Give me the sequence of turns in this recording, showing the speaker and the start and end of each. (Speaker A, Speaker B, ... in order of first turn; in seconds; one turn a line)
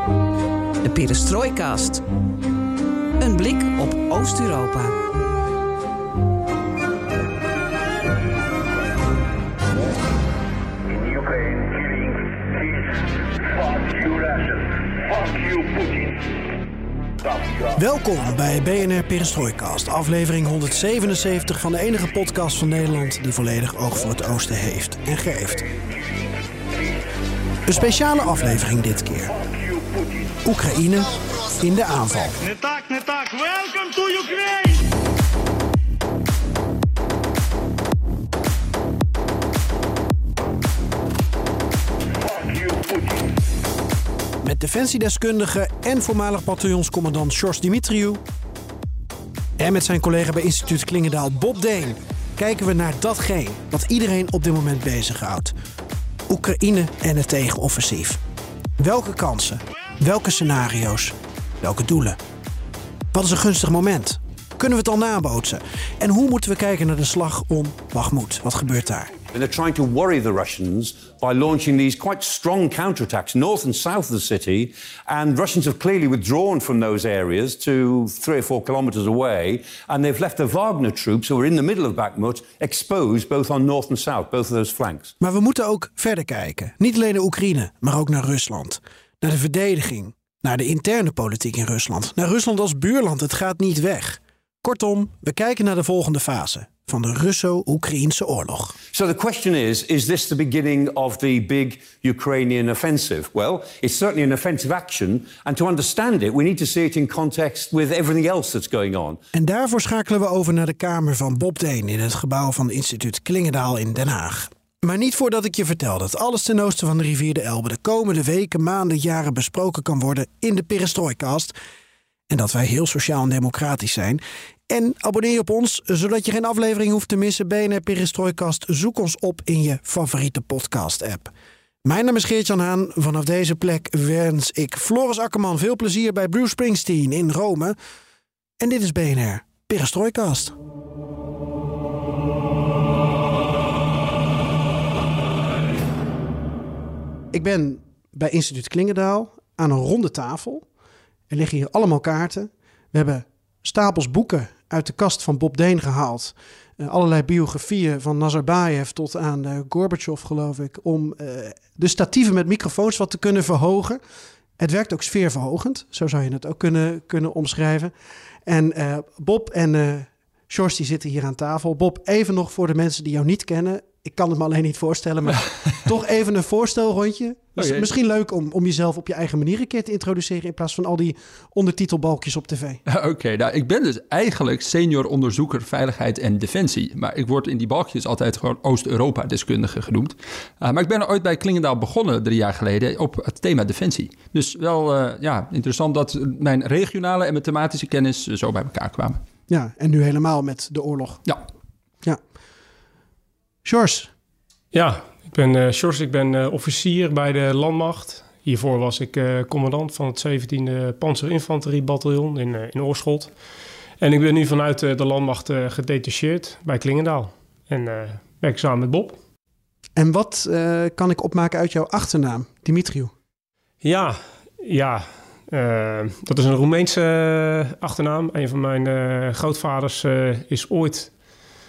Speaker A: 0.8-2.0
Speaker A: 3.2-4.9
Speaker B: 17.7-25.7
Speaker B: 27.6-29.4
Speaker B: 30.4-32.5
Speaker B: 44.4-48.2
Speaker B: 49.6-55.5
Speaker B: 56.3-58.2
Speaker B: 58.8-62.2
Speaker B: 63.1-69.2
Speaker C: 69.3-85.1
Speaker B: 85.2-98.8
Speaker C: 98.9-109.2
Speaker B: 109.3-121.5
Speaker B: 122.3-131.3
Speaker B: 131.8-137.8
Speaker B: 138.6-140.5
Speaker B: 147.3-150.7
Speaker B: 151.3-164.0
Speaker B: 164.6-167.9
Speaker B: 168.4-182.8
Speaker D: 177.6-177.9
Speaker D: 182.9-199.2
Speaker B: 199.5-201.2
Speaker B: 203.6-204.1
Speaker E: 204.7-213.3
Speaker E: 214.0-219.2
Speaker B: 219.9-223.1
Speaker E: 223.8-231.1